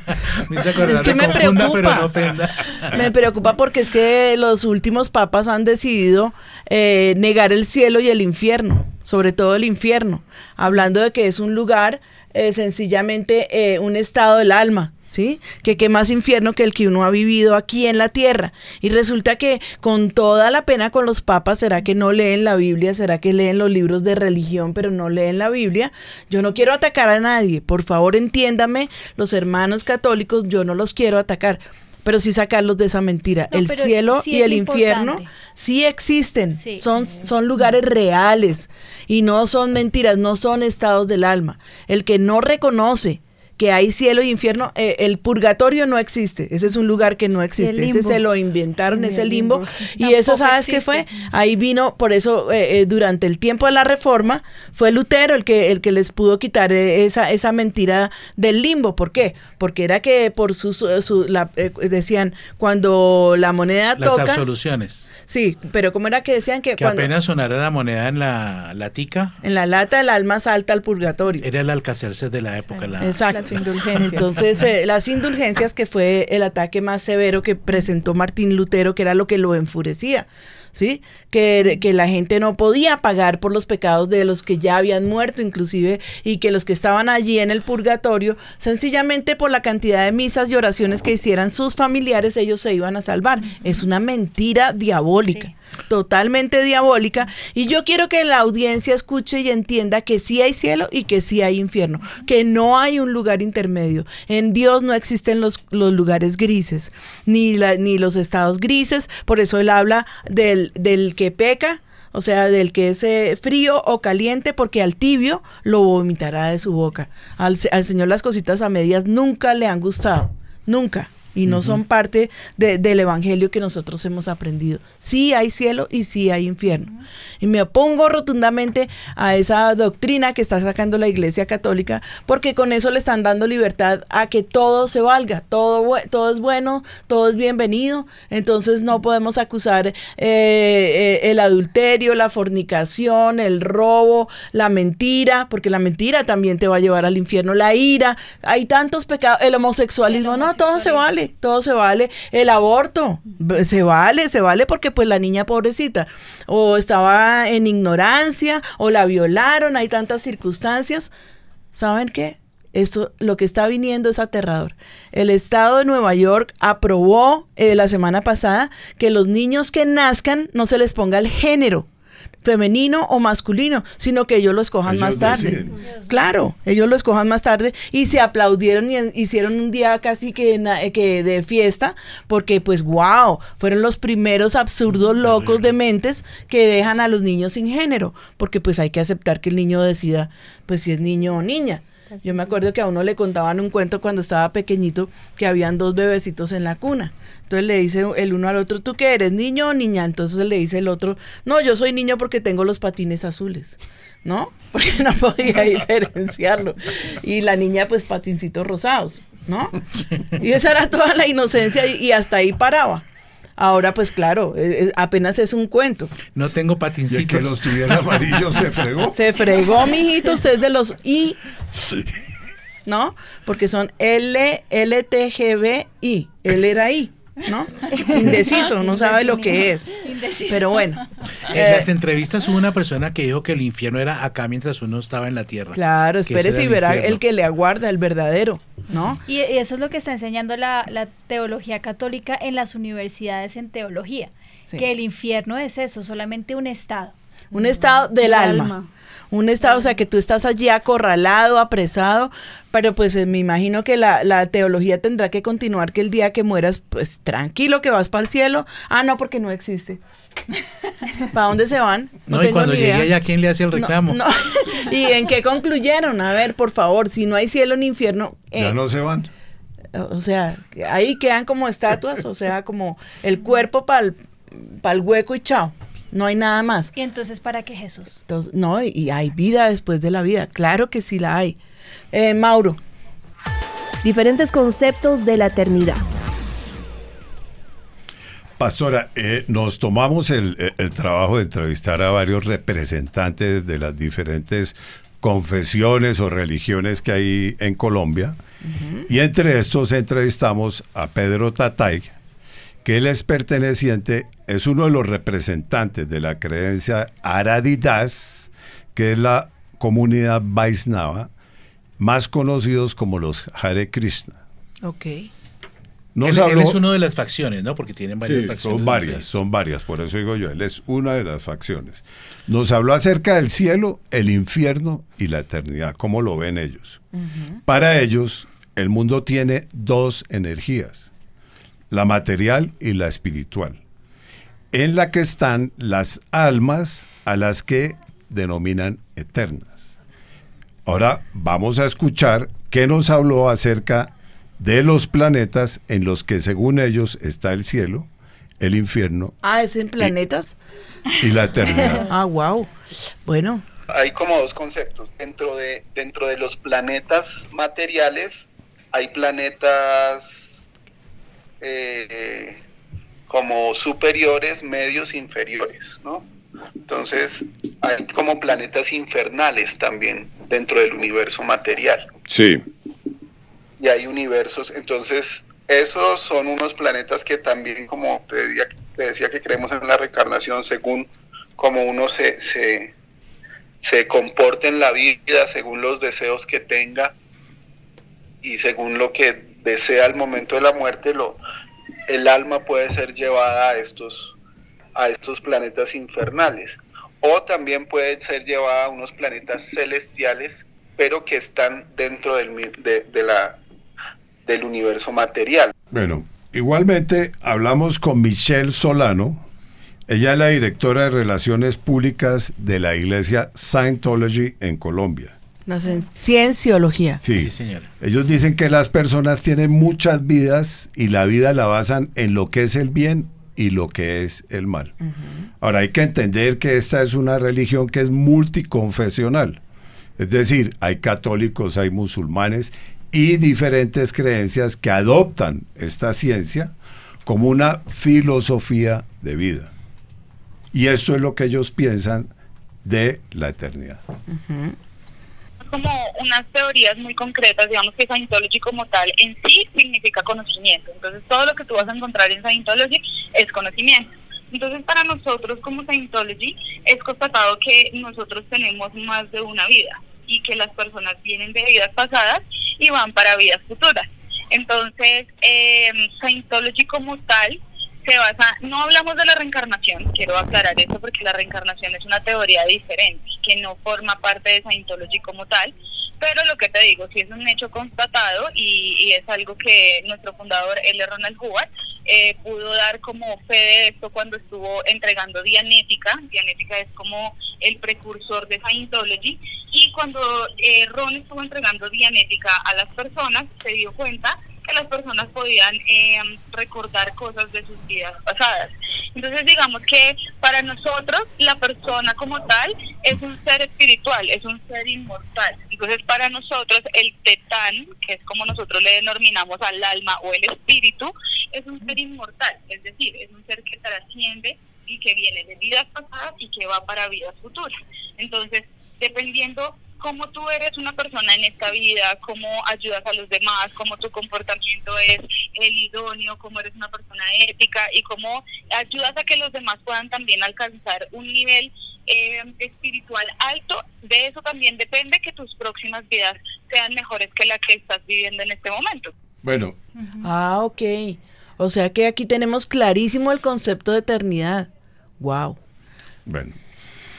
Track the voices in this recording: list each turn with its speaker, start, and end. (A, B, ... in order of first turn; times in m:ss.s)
0:00.1-0:03.0 A
0:00.8-0:02.1 B
0:02.9-1:04.4 B
0:33.5-0:35.3 C
0:36.6-0:36.8 C
0:47.6-0:48.2 C
0:48.9-0:51.2 C
1:04.0-1:05.1 A
1:05.3-1:07.1 B
1:06.8-1:09.4 A
1:09.4-1:11.4 B
1:11.4-1:13.6 A
1:13.0-2:41.1 B
1:13.9-1:14.2 C
2:01.4-2:01.8 A
2:30.1-2:31.1 C
2:41.7-2:51.9 B
2:52.4-3:29.8 B
2:54.8-2:55.7 D
2:55.8-2:56.1 C
3:05.2-3:05.7 A
3:30.4-3:33.0 B
3:33.6-3:36.1 B
3:36.3-3:38.0 A
3:37.1-3:39.2 D
3:39.1-3:41.4 B
3:42.9-3:51.9 B
3:47.9-3:51.0 C
3:51.5-3:57.2 A
3:55.7-3:59.2 B
3:59.3-4:07.1 C
4:07.5-4:08.8 B
4:08.2-4:08.8 C
4:09.3-4:20.0 B
4:21.3-4:23.1 B
4:22.3-4:24.2 A
4:23.7-4:28.8 B
4:28.6-4:29.3 D
4:29.9-4:36.9 B
4:37.0-4:38.2 C
4:38.3-4:41.6 B
4:42.1-4:42.8 B
4:44.0-4:46.0 E
4:48.6-4:58.4 D
4:58.6-4:59.1 B
4:59.1-5:02.1 D
5:02.8-5:11.3 D
5:12.0-5:14.4 D
5:14.8-5:15.3 B
5:16.2-5:16.8 D
5:16.2-5:19.2 A
5:18.2-5:27.0 D
5:27.7-5:31.1 D
5:31.9-5:33.8 D
5:34.7-5:39.9 D
5:40.9-5:48.1 D
5:48.6-5:49.4 D
5:49.4-5:50.6 B
5:51.2-5:52.1 D
5:51.9-5:52.7 B
5:53.2-5:53.6 B
5:53.9-6:00.7 F
6:01.6-6:02.6 F
6:03.3-6:06.2 F
6:06.9-6:12.1 F
6:12.3-6:12.6 D
6:13.8-6:22.9 F
6:23.8-6:27.1 F
6:28.4-6:31.4 F
6:32.1-6:34.3 F
6:35.0-6:43.6 F
6:44.5-6:45.7 F
6:45.9-6:49.4 D
6:50.1-6:55.4 D
6:55.7-6:57.2 B
6:57.2-7:04.9 D
6:57.4-6:57.9 A
7:05.0-7:05.4 B
7:05.6-7:09.6 D
7:10.2-7:16.7 D
7:17.2-7:19.7 D
7:20.7-7:22.3 D
7:22.8-7:24.0 D
7:24.3-7:24.8 B
7:25.6-8:59.1 G
8:59.4-8:59.8 D
9:00.2-9:04.7 B
9:05.2-9:05.6 B
9:06.3-9:06.6 D